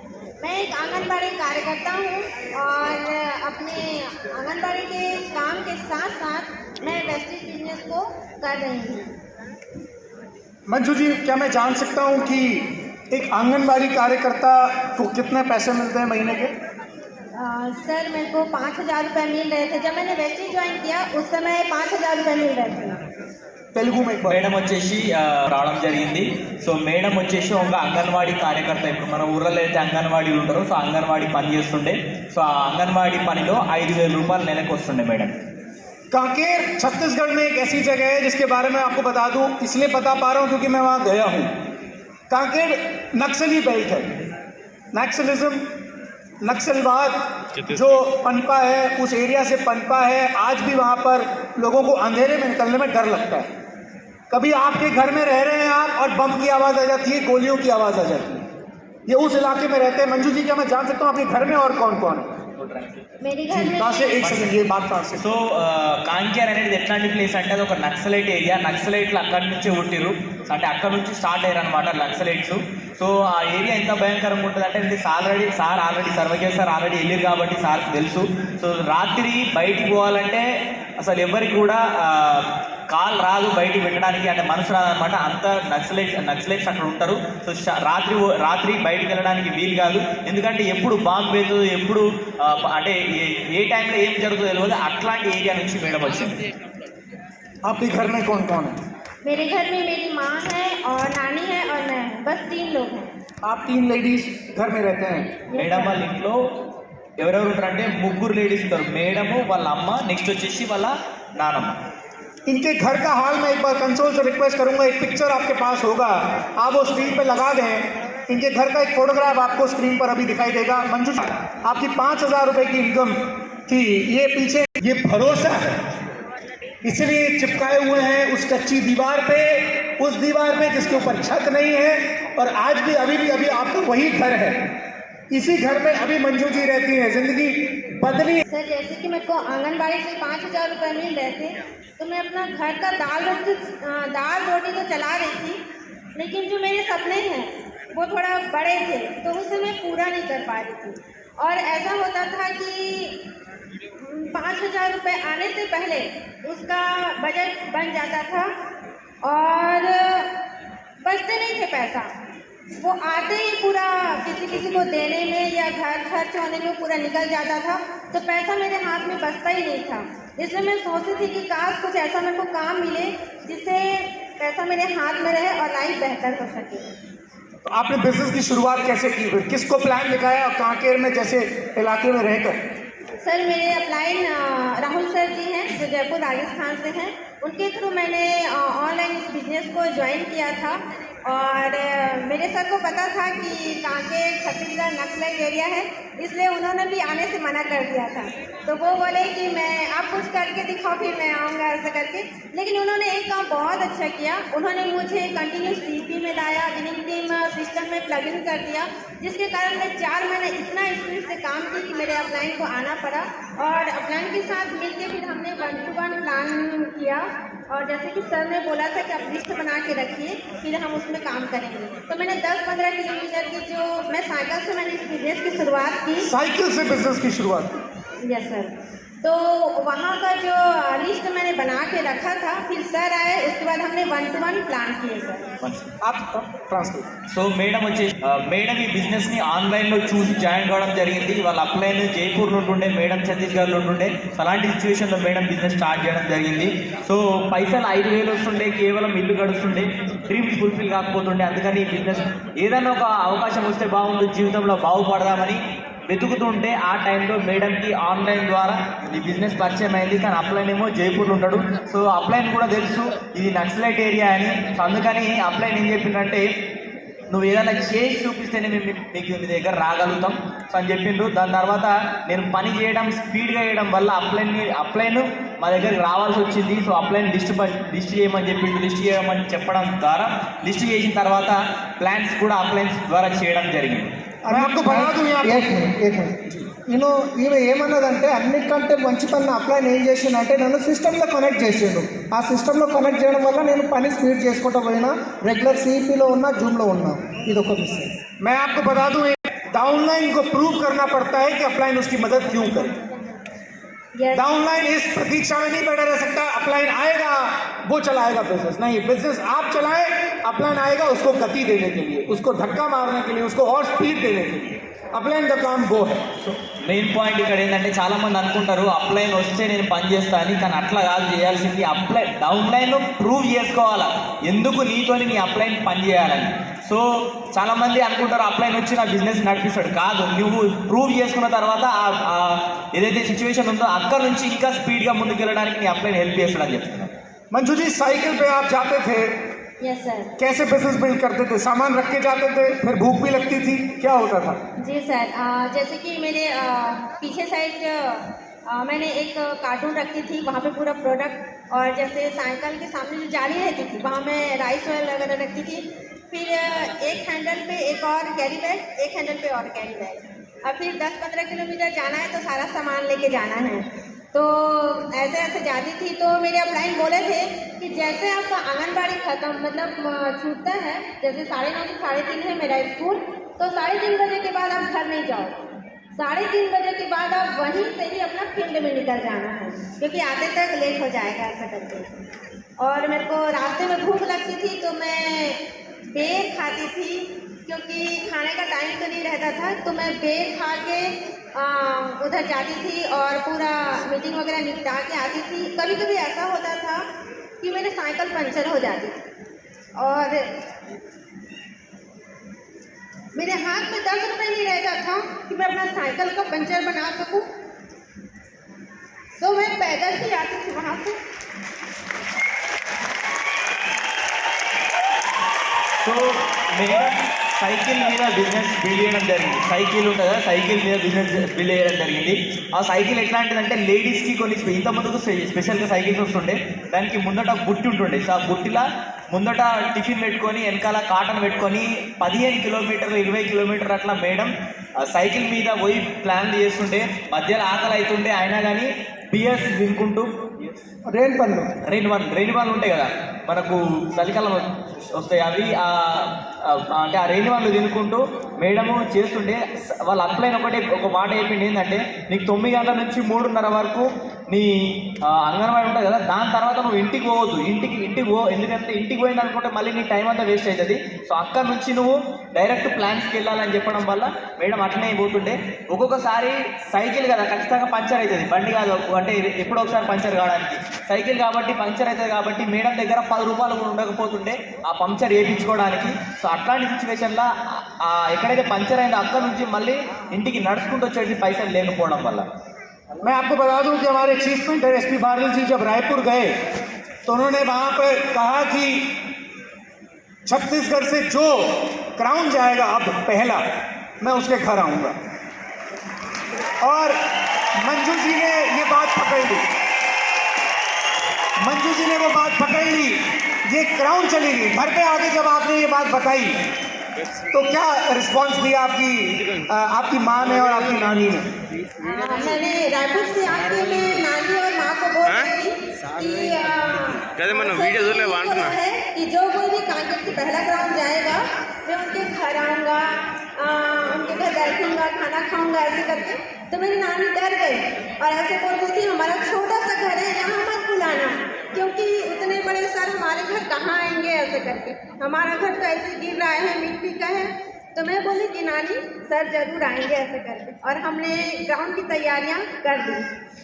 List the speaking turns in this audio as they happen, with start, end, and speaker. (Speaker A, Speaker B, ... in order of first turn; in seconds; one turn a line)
Speaker A: 0.4-9.1
Speaker B: 10.7-16.5
Speaker A: 17.3-23.0
Speaker B: 23.7-24.4
Speaker C: 24.3-35.4
Speaker B: 36.1-41.5
Speaker B: 42.3-44.1
Speaker B: 44.9-45.6
Speaker B: 46.4-53.5
Speaker B: 54.3-58.5
Speaker B: 59.1-62.4
Speaker C: 62.6-63.2
Speaker A: 63.2-64.2
Speaker B: 63.5-65.3
Speaker C: 64.2-64.6
Speaker C: 65.2-80.5
Speaker C: 81.0-96.4
Speaker B: 97.7-98.8
Speaker A: 99.2-103.1
Speaker B: 103.4-105.4
Speaker A: 105.5-106.0
Speaker C: 105.6-106.4
Speaker C: 107.2-111.8
Speaker B: 112.5-125.8
Speaker B: 126.8-134.7
Speaker B: 135.3-138.4
Speaker A: 138.5-145.6
Speaker A: 146.2-153.2
Speaker A: 153.9-158.5
Speaker A: 159.2-160.3
Speaker A: 161.0-162.1
Speaker A: 162.8-176.9
Speaker B: 177.7-182.6
Speaker A: 183.2-226.3
Speaker B: 226.2-227.8
Speaker A: 228.2-235.5
Speaker C: 235.6-235.9
Speaker B: 236.0-237.1
Speaker C: 237.3-266.4
Speaker C: 267.3-284.1
Speaker B: 284.4-285.6
Speaker D: 284.5-298.1
Speaker B: 298.4-303.0
Speaker A: 304.1-304.5
Speaker B: 304.3-316.5
Speaker C: 316.8-337.1
Speaker B: 337.5-339.3
Speaker A: 339.8-340.3
Speaker B: 340.4-344.6
Speaker A: 344.8-382.1
Speaker A: 382.8-397.1
Speaker A: 397.6-399.2
Speaker A: 400.0-400.5
Speaker A: 403.4-407.5
Speaker A: 409.4-411.2
Speaker C: 416.0-434.5
Speaker C: 435.0-440.9
Speaker D: 441.1-441.7
Speaker C: 441.9-482.5
Speaker B: 483.2-486.5
Speaker B: 487.3-489.2
Speaker B: 490.5-493.6
Speaker B: 494.2-495.1
Speaker B: 496.8-497.2
Speaker B: 497.8-499.7
Speaker B: 501.6-506.6
Speaker B: 507.5-511.5
Speaker A: 512.0-543.2